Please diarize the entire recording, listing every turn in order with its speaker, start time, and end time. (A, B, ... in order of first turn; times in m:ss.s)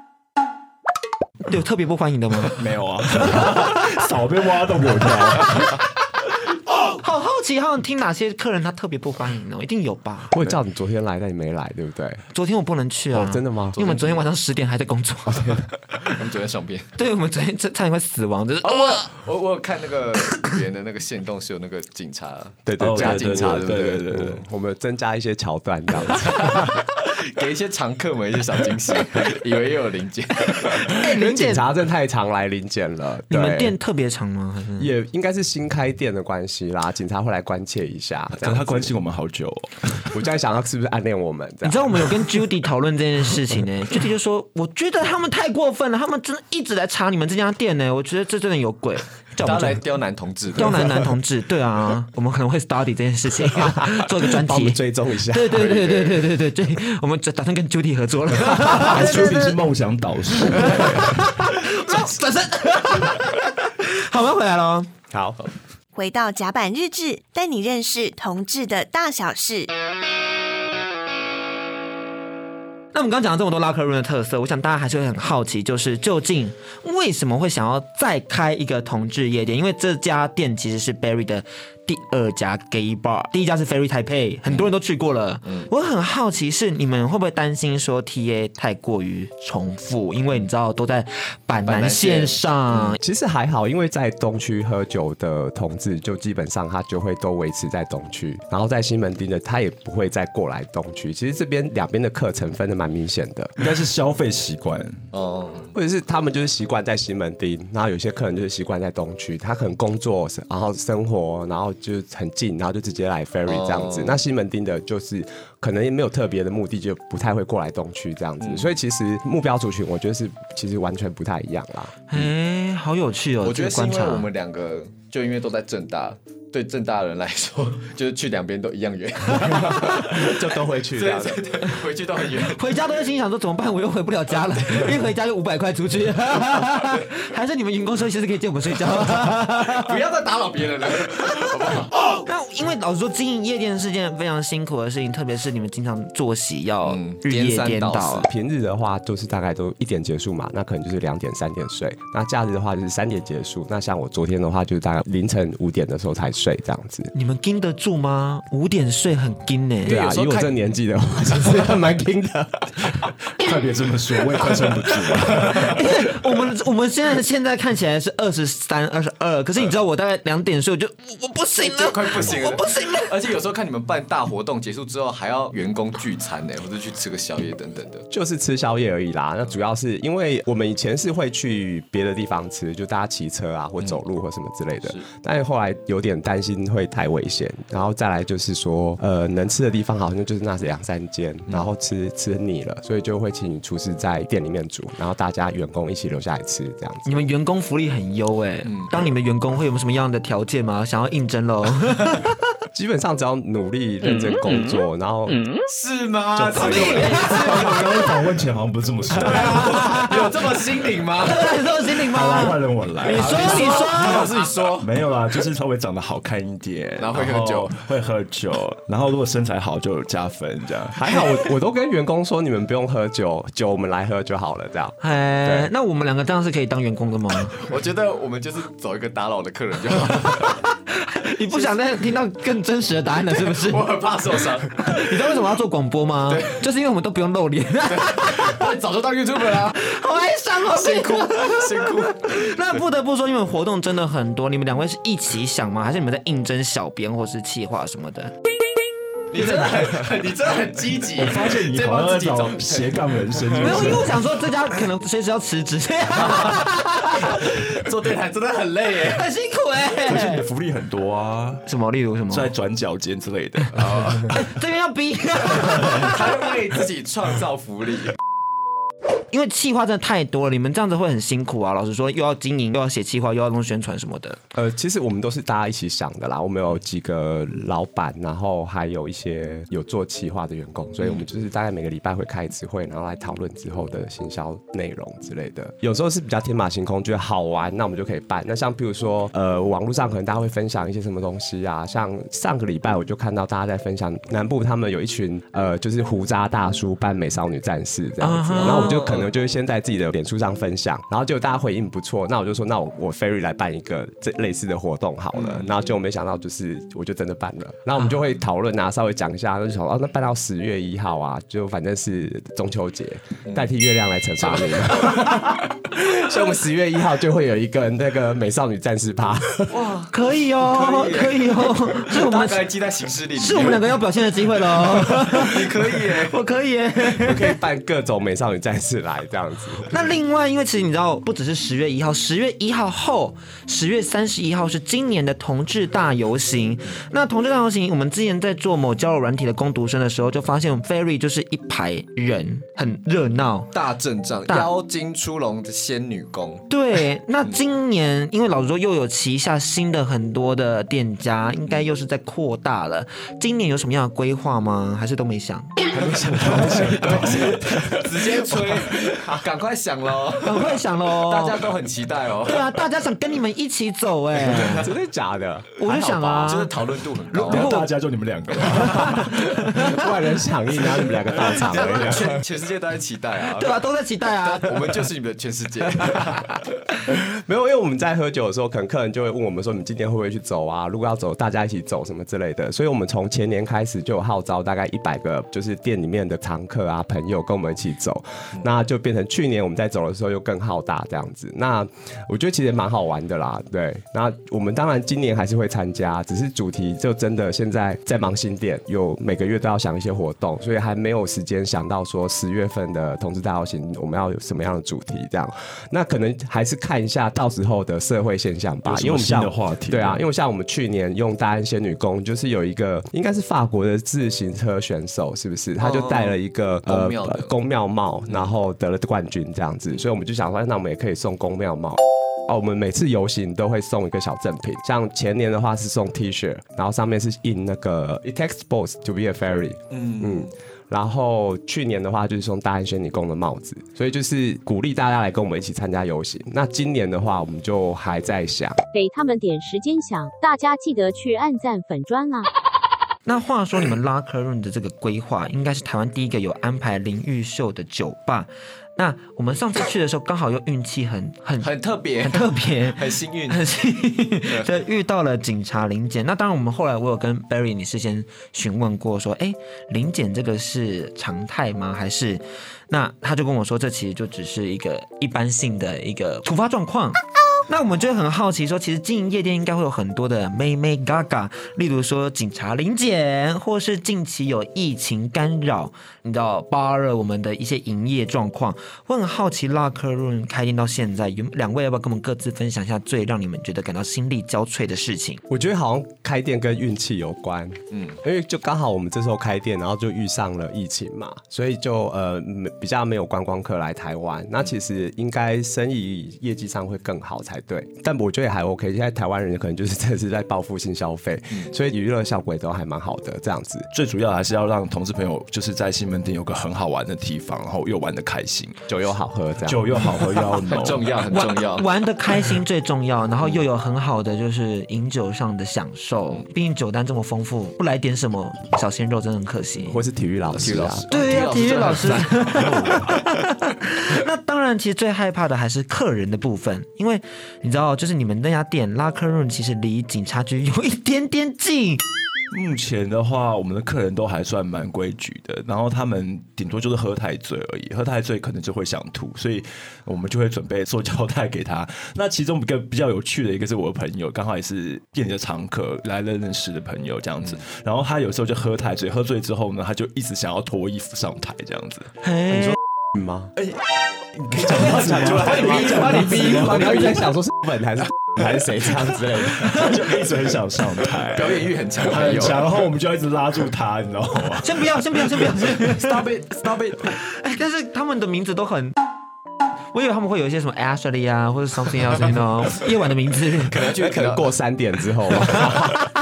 0:01.4-0:02.6 A
0:02.5-0:05.8 B
0:03.2-0:03.8 A
0:06.9-0:10.3 A
0:10.3-0:12.2 C
0:12.3-0:15.7 A
0:13.1-0:13.8 C
0:13.8-0:14.2 D
0:15.3-0:15.6 C
0:16.0-0:16.9 D
0:17.0-0:19.1 A
0:18.6-0:24.0 D
0:22.7-0:26.7 C
0:22.8-0:24.4 B
0:26.1-0:30.9 D
0:30.6-0:31.6 A
0:31.0-0:33.8 C
0:33.3-0:34.9 A
0:34.8-0:38.9 C
0:38.4-0:40.1 B
0:40.0-0:42.1 C
0:41.6-0:49.8 A
0:49.4-0:51.1 D
0:50.6-0:59.4 A
0:53.8-0:55.8 C
0:55.6-0:56.2 D
0:58.6-1:01.3 B
0:58.8-0:59.6 C
1:00.6-1:04.9 A
1:05.1-1:05.4 C
1:05.9-1:09.7 E
1:12.9-1:33.0 A
1:31.7-1:32.9 D
1:33.0-1:43.5 C
1:43.6-1:45.1 B
1:45.1-1:45.7 D
1:45.7-2:02.0 C
1:53.5-1:54.2 D
1:58.4-1:58.7 D
2:02.1-2:04.3 A
2:03.4-2:10.4 D
2:09.5-2:11.4 C
2:10.9-2:12.7 D
2:12.4-2:20.0 A
2:19.7-2:22.0 D
2:22.2-2:28.3 A
2:26.8-2:28.3 D
2:28.3-2:37.1 C
2:37.1-2:40.0 A
2:39.8-2:40.6 D
2:39.8-2:42.9 C
2:43.4-2:45.9 B
2:45.5-2:53.1 A
2:51.6-2:58.1 D
2:58.1-3:17.3 C
3:17.1-3:22.4 A
3:18.7-3:18.9 D
3:22.7-3:25.5 C
3:25.7-3:28.2 D
3:26.4-3:30.1 B
3:26.5-3:28.0 A
3:29.2-3:31.5 D
3:29.3-3:30.2 A
3:31.2-3:34.3 A
3:32.1-3:34.3 B
3:33.1-3:34.9 D
3:34.8-3:41.2 B
3:37.0-3:37.8 D
3:40.9-3:45.7 C
3:45.0-3:47.6 A
3:47.6-3:50.6 D
3:51.0-3:53.9 A
3:53.3-3:55.2 D
3:54.8-3:58.7 A
3:56.3-3:56.6 D
3:57.9-3:59.8 D
3:59.7-4:08.3 A
4:00.7-4:02.8 D
4:09.3-4:14.0 D
4:11.2-4:14.1 B
4:13.6-4:17.6 A
4:16.2-4:19.3 D
4:19.1-4:20.4 A
4:20.0-4:21.6 B
4:21.7-4:22.5 A
4:22.3-4:24.4 B
4:23.7-4:24.4 D
4:24.3-4:26.2 A
4:25.7-4:28.2 D
4:29.3-4:34.4 A
4:34.5-5:19.8 C
4:58.2-4:59.0 A
4:58.6-4:59.3 D
5:05.4-5:05.8 D
5:14.5-5:15.4 D
5:19.7-5:23.9 D
5:20.1-5:22.6 A
5:23.4-5:27.5 A
5:24.8-5:26.4 D
5:27.2-5:29.9 C
5:29.9-5:43.7 A
5:43.7-5:46.7 D
5:46.7-5:55.8 A
5:55.9-5:58.1 B
5:56.4-6:02.8 D
6:00.4-6:01.6 A
6:02.4-6:04.9 A
6:04.5-6:04.8 D
6:04.6-6:06.4 C
6:05.8-6:06.7 A
6:06.2-6:07.7 D
6:07.3-6:07.9 A
6:07.4-6:09.5 B
6:08.7-6:09.9 A
6:08.9-6:12.4 C
6:11.5-6:13.8 D
6:11.9-6:12.2 B
6:13.5-6:15.0 A
6:14.4-6:16.6 D
6:17.1-7:18.8 C
6:48.9-6:50.2 B
6:55.8-6:57.5 D
7:09.9-7:10.5 D
7:18.9-7:22.5 F
7:23.3-8:05.4 A
7:31.6-7:33.6 D
8:05.5-8:23.9 C
8:23.9-8:28.8 B
8:28.9-8:29.9 C
8:29.6-8:31.1 B
8:30.6-8:31.9 D
8:31.3-8:40.0 A
8:39.8-8:41.1 C
8:40.5-8:43.2 D
8:41.1-8:52.0 A
8:42.6-8:43.0 B
8:52.5-9:12.8 B
9:12.2-9:12.8 A
9:13.1-9:13.5 C
9:14.3-9:17.1 B
9:14.6-9:17.2 D
9:14.7-9:20.0 C
9:19.7-9:27.0 B
9:21.3-9:22.7 D
9:24.6-9:26.2 A
9:27.1-9:29.0 A
9:29.9-9:33.7 A
9:33.7-9:34.5 D
9:33.9-9:36.1 C